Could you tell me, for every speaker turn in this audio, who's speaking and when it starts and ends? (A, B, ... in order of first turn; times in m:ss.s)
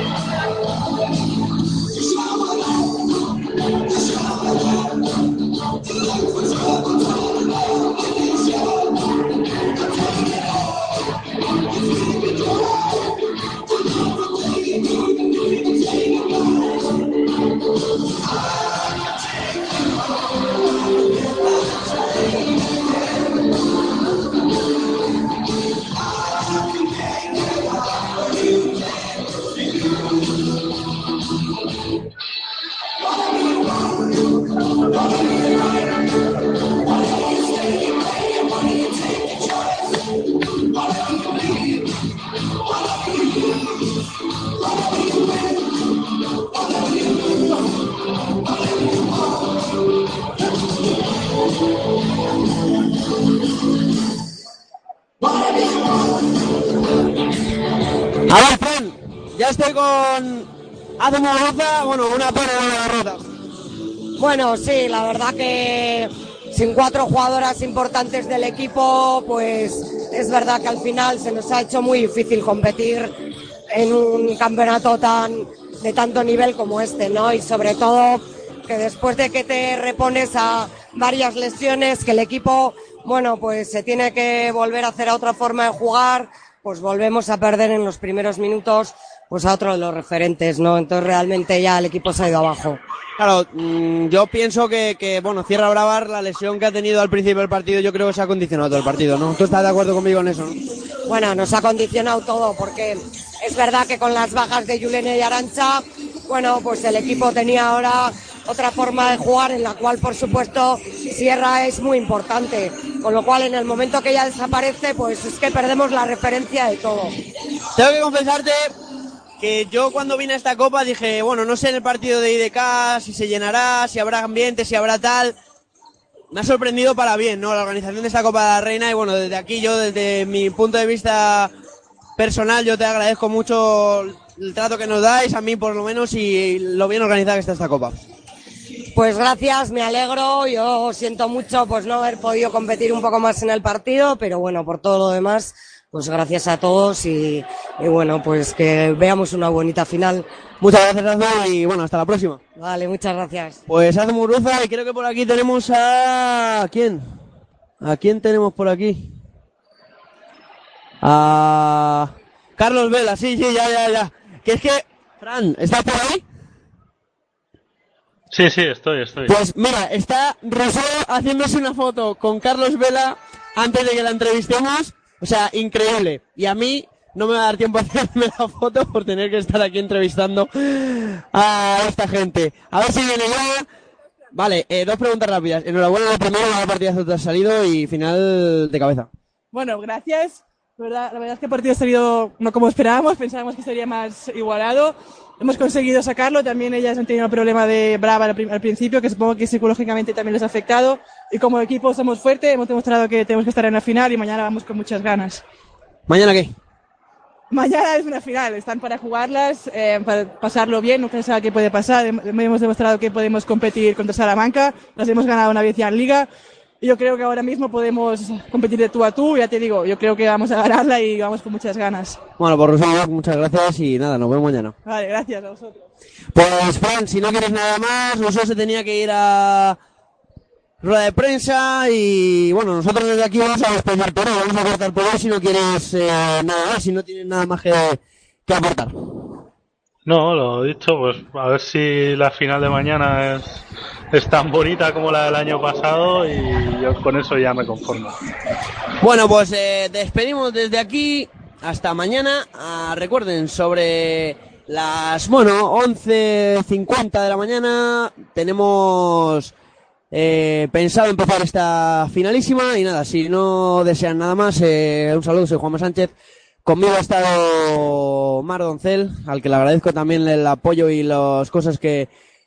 0:58.3-1:00.5 A
1:01.0-1:03.2 A
1:04.2-1:13.1 B
1:13.7-1:32.8 B
1:33.2-1:40.6 A
1:41.0-1:57.2 B
1:57.8-1:58.7 A
1:59.4-2:05.3 A
2:06.3-2:11.5 A
2:12.2-2:18.0 A
2:18.9-2:30.2 B
2:30.6-2:32.4 A
2:32.6-2:33.6 B
2:33.7-2:37.1 A
2:37.8-2:39.1 A
2:41.0-2:46.2 A
2:48.3-2:49.3 C
2:49.2-3:03.6 A
3:04.3-3:09.1 A
3:09.5-3:25.4 D
3:26.1-3:26.5 A
3:27.5-3:36.3 D
3:36.8-3:42.2 D
3:42.4-3:44.7 A
3:44.8-3:45.8 D
3:46.3-3:49.8 A
3:50.8-3:58.9 A
4:00.0-4:08.1 C
4:09.0-4:19.5 A
4:20.1-4:26.1 A
4:26.6-4:32.1 A